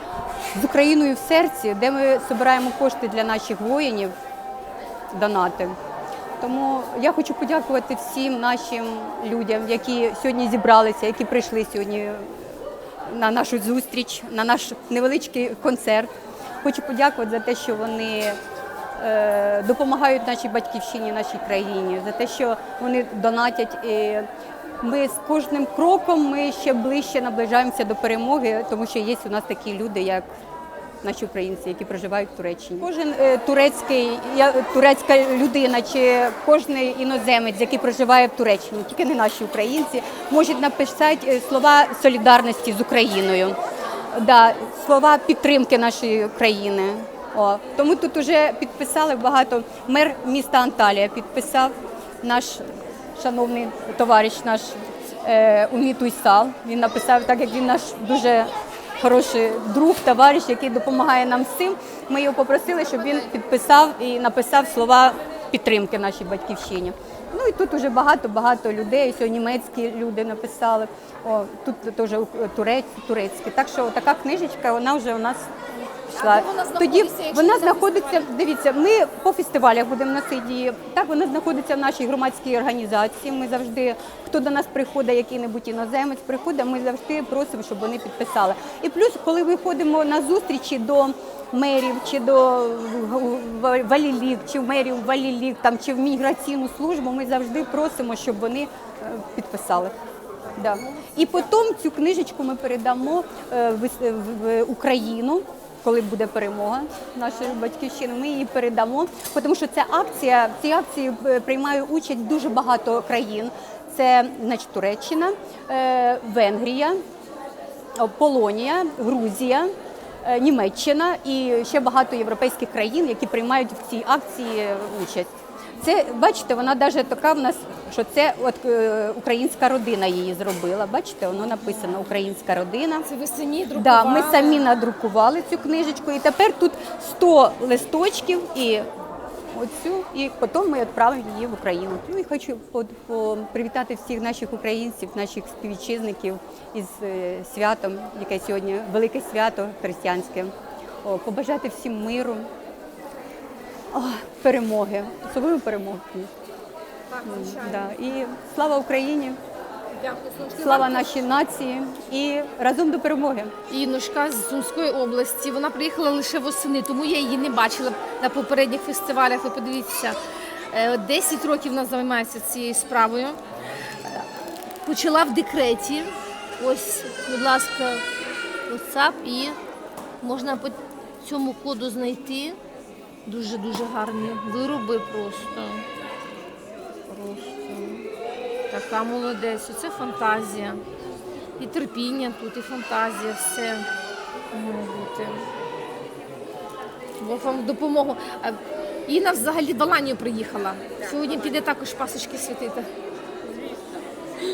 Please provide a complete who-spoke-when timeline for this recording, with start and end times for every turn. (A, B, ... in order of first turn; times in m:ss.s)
0:00.5-0:04.1 A
0:05.1-0:05.8 A
0:06.4-0:12.6 A
0:13.1-0:16.1 A
0:16.6-0:18.4 A
0:19.0-0:24.3 A
0:24.8-0:30.3 A
0:31.0-0:43.6 A
0:44.1-0:52.6 A
0:53.2-1:15.5 A
1:16.0-1:18.3 B
1:16.1-1:39.9 A
1:40.6-1:57.0 A
1:58.0-1:59.7 A
2:00.2-2:13.0 A
2:13.0-2:14.6 B
2:13.8-2:18.9 A
2:19.5-2:30.5 A
2:31.0-2:32.5 A
2:33.9-2:36.3 A
2:37.1-2:38.0 B
2:37.2-2:39.4 A
2:40.0-2:41.2 B
2:40.6-2:43.5 A
2:43.7-2:50.2 B
2:50.7-2:53.4 B
2:54.8-2:58.0 B
2:58.7-2:59.6 B
3:00.2-3:02.6 B
3:03.3-3:05.8 B
3:07.1-3:08.1 B
3:08.7-3:10.8 B
3:11.6-3:13.9 B
3:14.5-3:15.5 B
3:17.2-3:22.9 B